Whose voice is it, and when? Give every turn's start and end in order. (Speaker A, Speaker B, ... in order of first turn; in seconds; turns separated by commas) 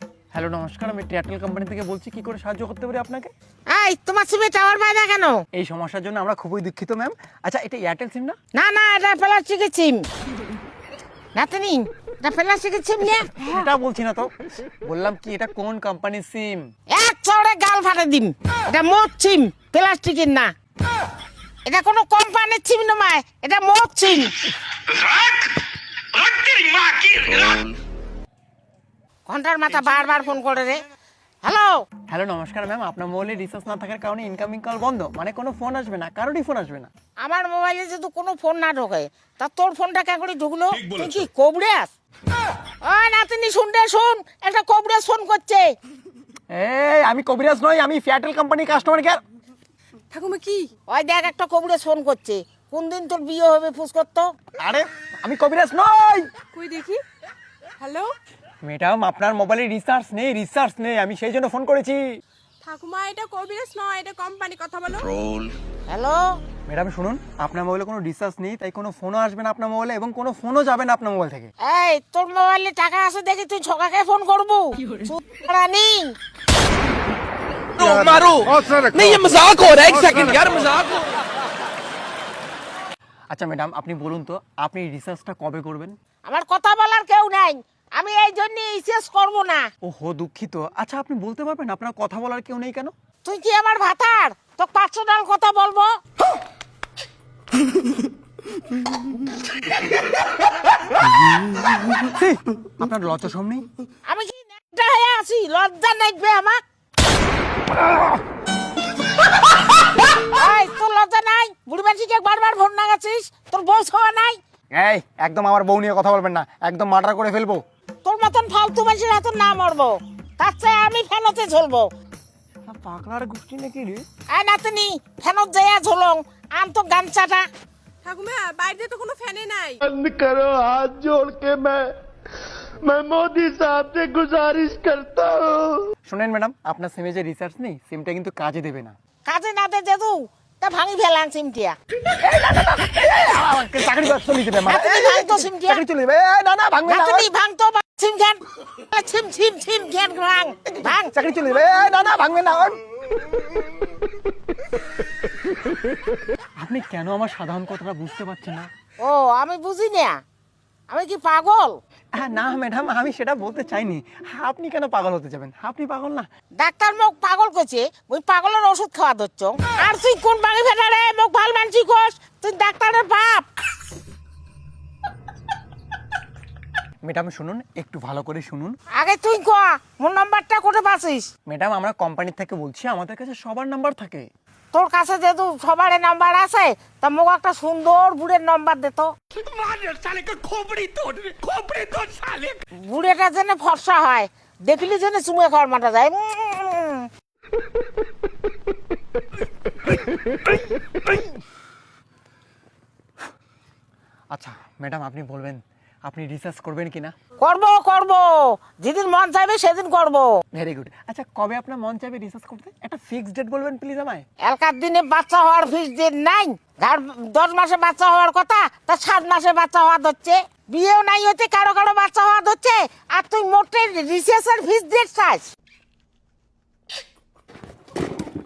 Speaker A: 0.3-3.3, Speaker B: 3.7-5.4, Speaker A: 5.5-8.4, Speaker B: 8.6-10.1, Speaker B: 11.4-13.3, Speaker A: 13.4-14.3, Speaker A: 14.8-16.6, Speaker B: 16.9-20.5, Speaker B: 21.7-24.4, Speaker C: 26.2-27.6, Speaker B: 29.3-30.8, Speaker B: 31.4-31.8, Speaker A: 32.1-36.9, Speaker B: 37.2-41.9, Speaker B: 42.8-45.7, Speaker A: 46.5-49.2, Speaker D: 50.1-50.7, Speaker B: 50.9-54.3, Speaker A: 54.6-56.3, Speaker D: 56.5-57.0, Speaker D: 57.8-58.1, Speaker A: 58.6-62.0, Speaker D: 62.6-65.1, Speaker B: 65.9-66.4, Speaker A: 66.7-71.5, Speaker B: 71.6-76.1, Speaker C: 77.8-81.0, Speaker A: 83.3-86.0, Speaker B: 86.2-89.7, Speaker A: 89.8-92.9, Speaker B: 93.2-95.9, Speaker A: 101.1-103.7, Speaker B: 104.1-106.6, Speaker B: 110.2-114.4, Speaker A: 114.7-117.6, Speaker B: 118.0-121.9, Speaker A: 122.7-124.0, Speaker B: 124.3-127.5, Speaker D: 128.0-129.8, Speaker E: 129.8-131.9, Speaker E: 132.8-135.9, Speaker A: 136.1-138.9, Speaker B: 139.2-141.8, Speaker A: 142.1-147.3, Speaker B: 144.7-145.8, Speaker B: 146.8-151.1, Speaker A: 150.7-152.8, Speaker A: 156.6-158.7, Speaker B: 159.0-160.2, Speaker B: 160.9-161.8, Speaker A: 162.2-166.3, Speaker B: 166.6-173.5, Speaker A: 177.0-178.8, Speaker B: 179.0-181.3, Speaker A: 181.5-184.3, Speaker B: 184.7-189.1, Speaker C: 189.4-192.6, Speaker A: 191.1-191.4, Speaker B: 192.8-197.1, Speaker A: 204.3-207.1, Speaker B: 207.4-210.4, Speaker A: 210.5-214.2, Speaker B: 214.4-225.5